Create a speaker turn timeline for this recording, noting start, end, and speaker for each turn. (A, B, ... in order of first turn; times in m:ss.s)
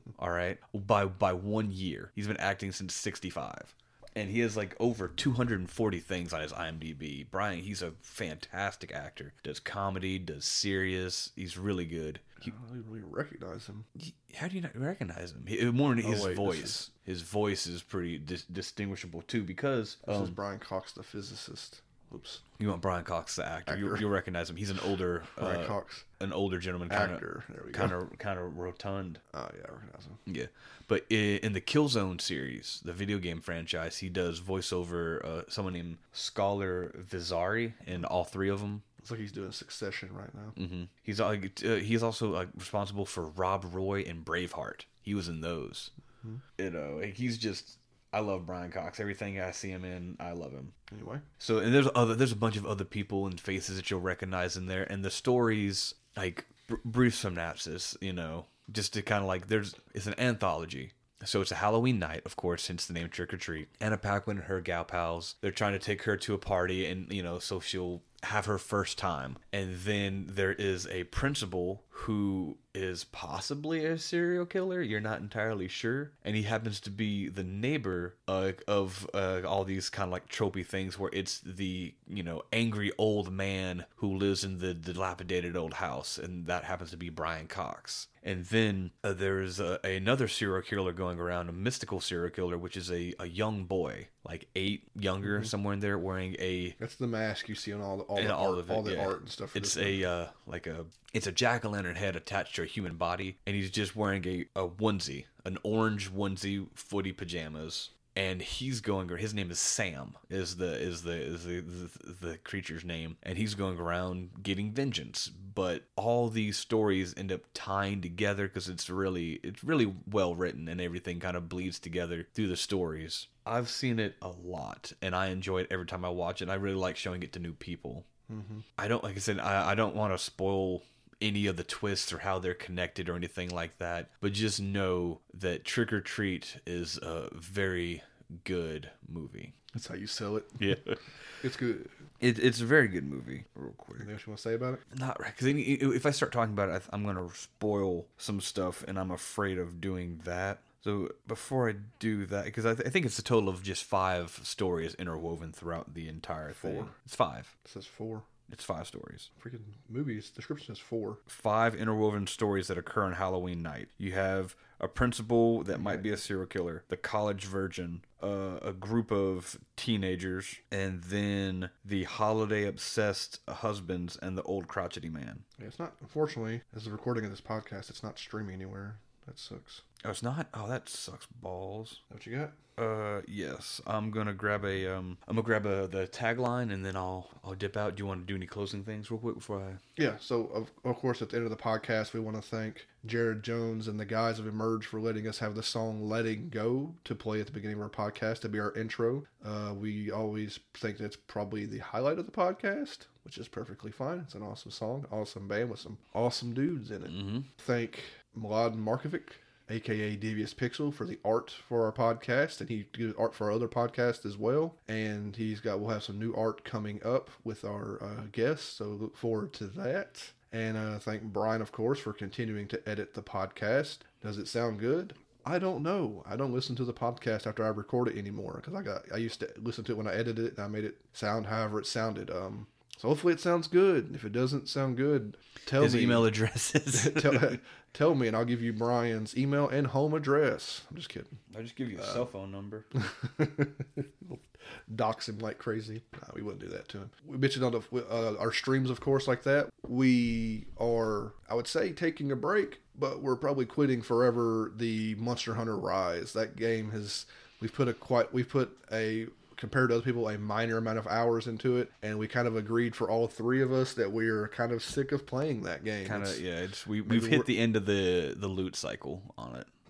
0:00.2-0:12.5 A
0:12.4-0:13.9 B
0:13.9-0:20.4 A
0:16.0-0:16.8 B
0:20.0-0:22.4 B
0:22.6-0:29.2 A
0:23.7-0:24.0 B
0:25.4-0:26.0 B
0:26.9-0:27.9 B
0:29.3-0:30.2 B
0:30.2-0:38.8 A
0:39.0-0:40.6 B
0:40.6-0:45.9 A
0:46.6-0:50.7 A
0:50.9-0:51.2 B
0:51.4-1:36.8 A
1:36.8-1:40.0 B
1:38.2-2:08.0 A
2:08.3-2:08.6 B
2:08.8-2:19.5 A
2:19.7-2:21.9 B
2:20.6-2:21.0 A
2:22.2-2:24.1 A
2:24.0-2:24.8 B
2:24.9-2:37.5 A
2:36.5-2:36.9 B
2:37.6-2:38.3 B
2:38.5-2:39.3 A
2:39.4-2:41.2 B
2:41.3-2:55.4 A
2:45.7-2:46.2 B
2:55.6-2:59.8 B
3:00.0-3:02.0 A
3:02.1-3:02.6 B
3:02.8-3:09.8 A
3:10.0-3:56.3 B
3:27.1-3:27.5 A
3:55.8-3:57.6 A
3:56.9-4:01.3 B
4:01.5-4:02.9 A
4:02.0-4:02.3 B
4:02.9-4:26.4 B
4:26.0-4:29.7 A
4:27.0-4:27.5 B